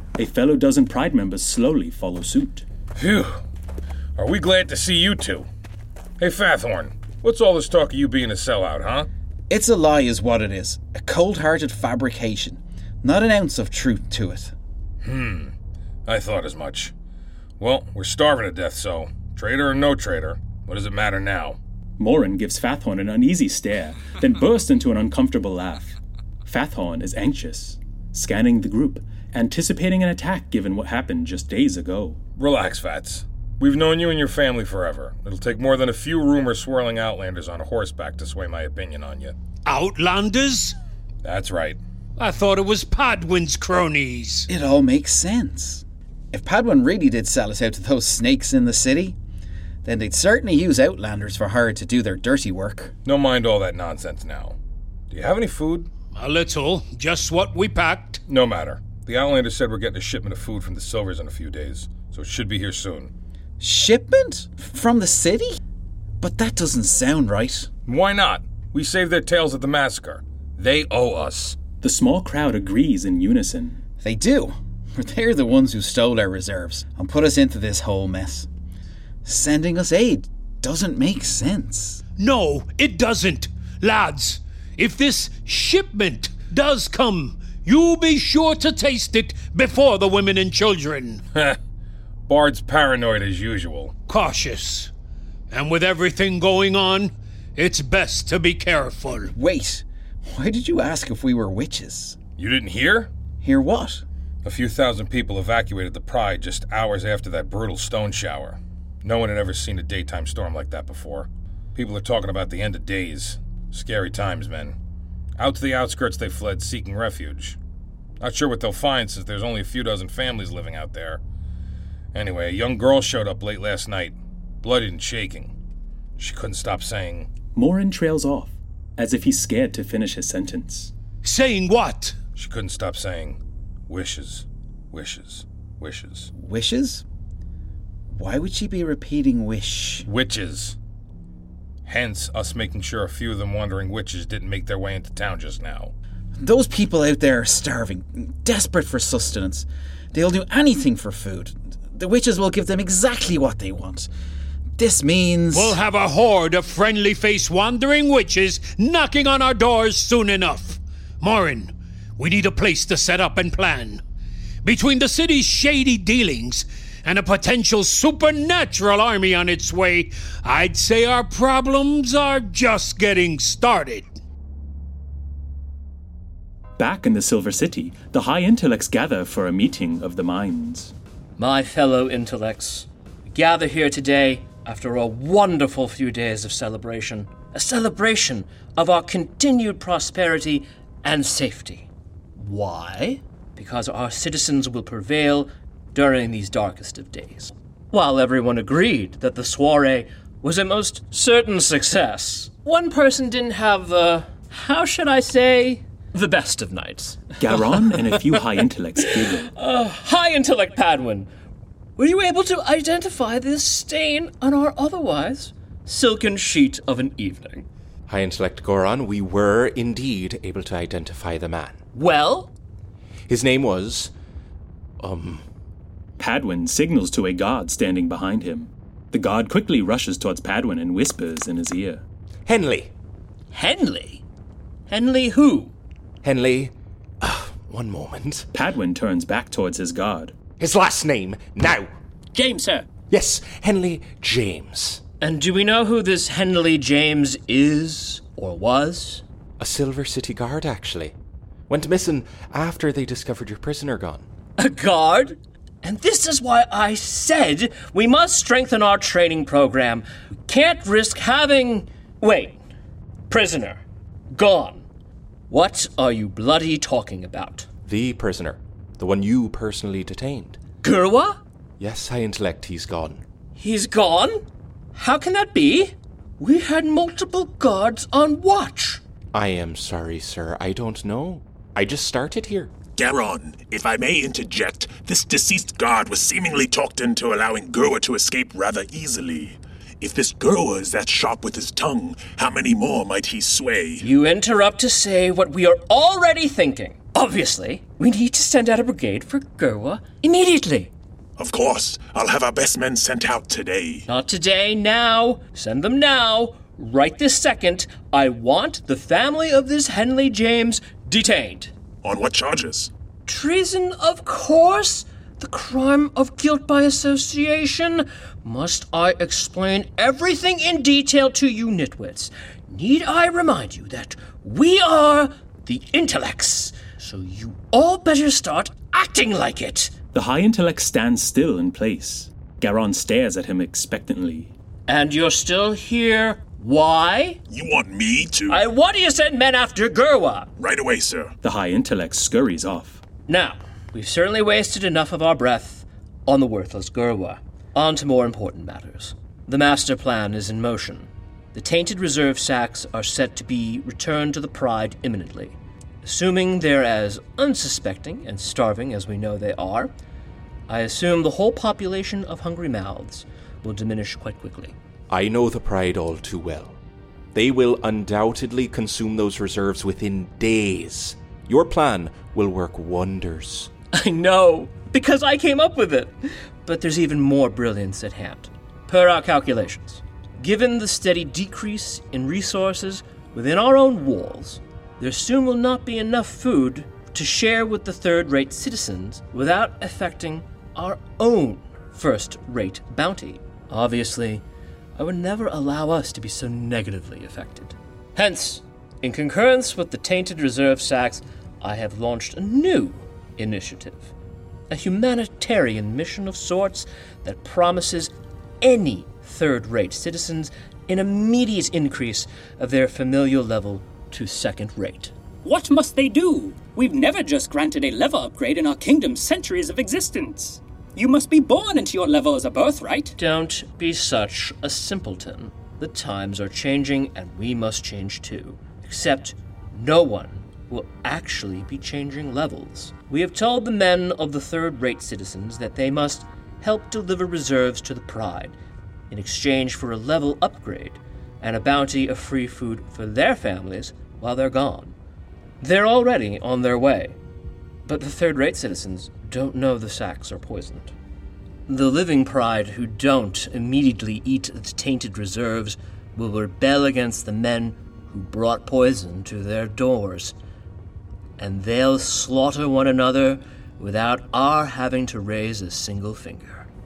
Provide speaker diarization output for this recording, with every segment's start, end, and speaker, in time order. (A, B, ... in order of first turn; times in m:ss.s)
0:00.2-0:02.6 A
0:03.0-0:03.4 B
0:04.2-0:05.5 B
0:06.2-0:09.1 B
0:09.5-0:14.5 C
0:15.0-0:15.5 B
0:16.1-0:16.9 B
0:17.6-0:21.6 B
0:22.0-0:32.2 A
0:32.4-0:39.4 B
0:39.7-0:40.8 D
0:41.2-0:41.8 B
0:42.2-0:44.5 D
0:44.5-0:49.2 C
0:49.8-0:52.9 C
0:53.0-0:54.6 B
0:55.1-0:55.9 B
0:56.1-0:58.2 D
0:58.3-1:03.1 B
1:03.6-1:05.6 C
1:06.2-1:07.7 C
1:07.9-1:11.6 B
1:11.8-1:13.8 A
1:14.0-1:18.5 C
1:19.2-1:22.0 C
1:22.2-1:31.2 D
1:32.3-1:34.0 B
1:34.1-1:34.9 D
1:35.5-1:39.3 D
1:39.3-1:42.2 C
1:42.4-1:43.1 B
1:43.4-1:44.0 C
1:44.4-1:54.8 B
1:55.4-1:57.6 B
1:58.2-2:01.2 B
2:02.1-2:05.5 B
2:06.2-2:07.3 B
2:07.5-2:10.9 A
2:11.2-2:12.2 D
2:12.4-2:16.3 B
2:16.3-2:17.0 C
2:18.1-2:20.1 C
2:20.1-2:20.8 B
2:21.8-2:25.9 B
2:26.4-2:34.1 C
2:34.8-2:35.8 C
2:35.5-2:44.0 D
2:44.6-2:54.0 D
2:56.8-3:00.9 A
3:01.4-3:28.4 E
3:27.4-3:29.5 A
3:29.0-3:31.3 E
3:32.0-3:37.7 E
3:38.1-3:41.8 F
3:41.9-3:42.5 E
3:43.3-3:44.1 F
3:45.0-3:45.4 F
3:46.2-3:52.0 A
3:52.5-3:52.9 F
3:53.5-3:54.2 E
3:54.9-3:55.7 E
3:56.2-3:58.5 F
3:58.5-4:00.3 A
4:00.6-4:01.9 F
4:02.3-4:02.9 G
4:03.0-4:05.0 F
4:05.2-4:09.2 E
4:09.6-4:11.2 F
4:11.7-4:14.3 F
4:14.6-4:22.6 E
4:23.3-4:23.8 E
4:24.3-4:24.8 E
4:25.5-4:27.7 E
4:27.8-4:30.6 F
4:30.8-4:31.4 E
4:31.8-4:33.2 F
4:33.6-4:34.4 E
4:34.9-4:39.0 E
4:39.3-4:42.8 F
4:42.9-4:54.1 H
4:54.0-5:00.9 E
5:01.4-5:04.1 H
5:04.1-5:11.7 E
5:12.0-5:12.9 H
5:13.3-5:29.9 E
5:30.1-5:34.5 A
5:34.9-5:37.4 E
5:37.5-5:38.6 H
5:38.5-5:40.5 E
5:40.6-5:41.3 H
5:41.4-5:43.0 A
5:43.3-5:59.9 E
6:00.7-6:04.8 E
6:05.1-6:06.8 F
6:07.3-6:13.7 F
6:13.9-6:34.4 E
6:35.0-6:44.1 E
6:44.7-6:55.1 E
6:55.4-7:03.2 G
7:03.2-7:18.6 E
7:19.1-7:25.0 E
7:25.6-7:27.2 E
7:27.8-7:30.9 E
7:31.7-7:40.4 E
7:41.4-7:46.7 E